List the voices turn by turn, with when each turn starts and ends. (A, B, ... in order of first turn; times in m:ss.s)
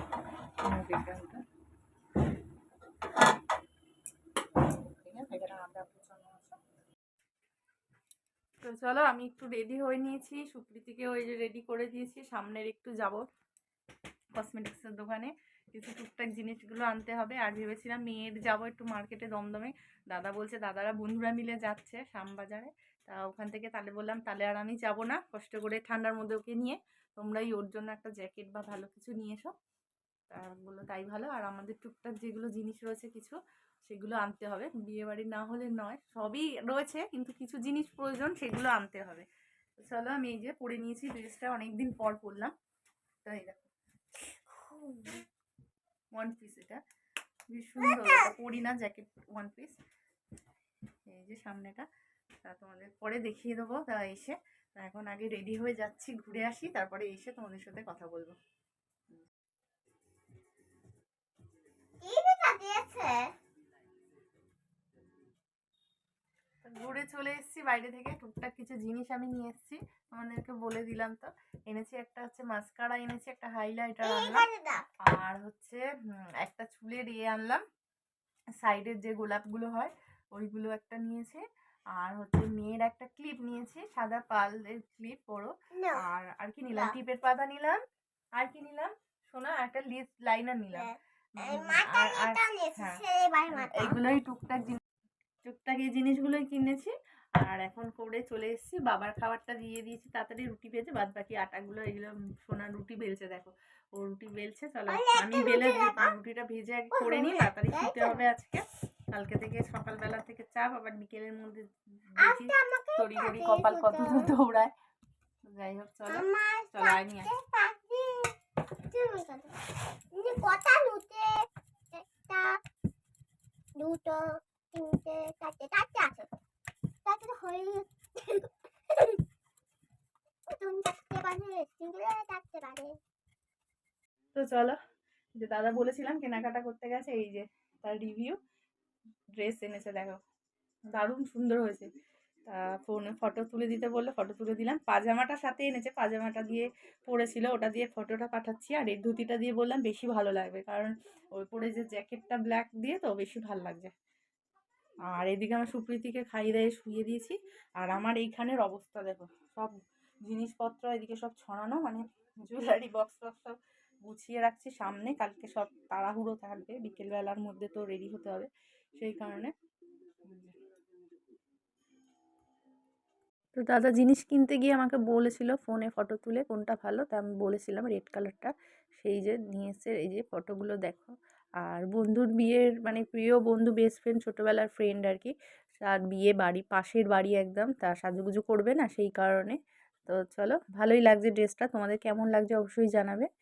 0:00.6-0:01.4 A
0:04.6-0:06.6 A
0:08.6-0:13.2 A
0:14.4-0:29.5 A
0:30.3-0:39.3 A
0:39.8-0:42.5 A
0:43.2-0:43.7 A
0:44.5-0:45.2 B
0:46.1-0:46.8 A
0:47.5-0:49.8 A
0:47.8-0:48.3 B
0:51.1-0:51.9 A
0:52.4-0:58.4 A
1:02.0-1:03.3 B
1:06.6-1:14.5 A
1:14.0-1:14.8 B
1:15.1-1:15.9 A
1:16.4-1:17.6 A
1:18.6-1:21.4 A
1:22.0-1:27.8 A
1:25.7-1:26.0 B
1:26.7-1:27.0 B
1:28.4-1:34.8 A
1:30.7-1:34.0 B
1:35.4-1:54.7 A
1:44.9-1:46.1 B
1:46.9-1:48.2 B
1:52.2-1:54.3 B
1:55.5-1:57.3 A
1:56.1-1:59.6 B
2:00.1-2:02.6 B
2:03.8-2:06.3 B
2:07.0-2:09.2 B
2:10.5-2:13.0 B
2:14.4-2:14.8 A
2:15.4-2:18.4 A
2:19.4-2:20.2 A
2:20.9-2:21.9 A
2:22.5-2:33.9 A
2:35.1-2:49.5 A
2:50.2-2:50.6 A
2:53.6-3:13.3 A